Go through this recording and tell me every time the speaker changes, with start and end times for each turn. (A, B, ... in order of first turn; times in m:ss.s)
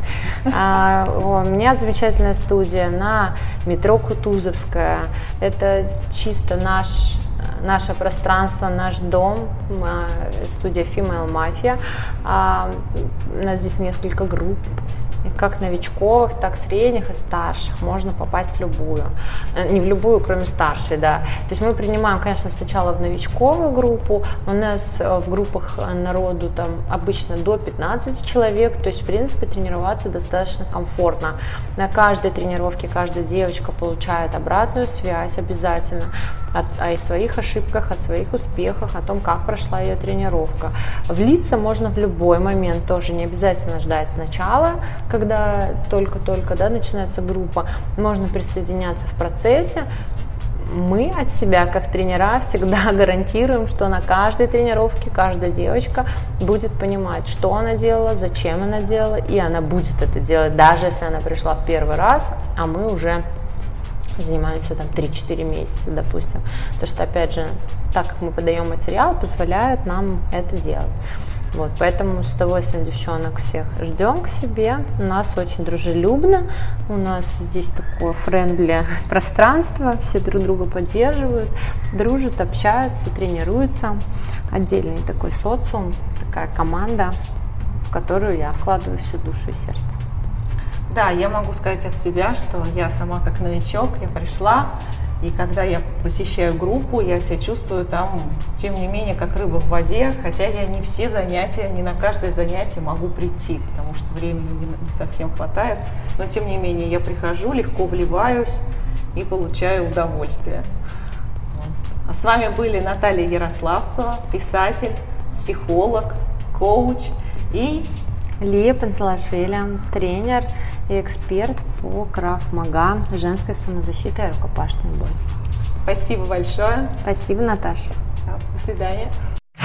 0:00.4-0:49.9 A
0:50.6-1:03.2 A
1:04.2-1:10.9 A
1:11.5-1:27.1 A
1:27.9-1:30.0 A
1:30.9-1:50.7 B
1:51.5-1:57.9 B
1:58.4-2:05.2 A
2:05.8-2:06.9 B
2:07.0-2:07.9 A
2:08.2-2:09.1 B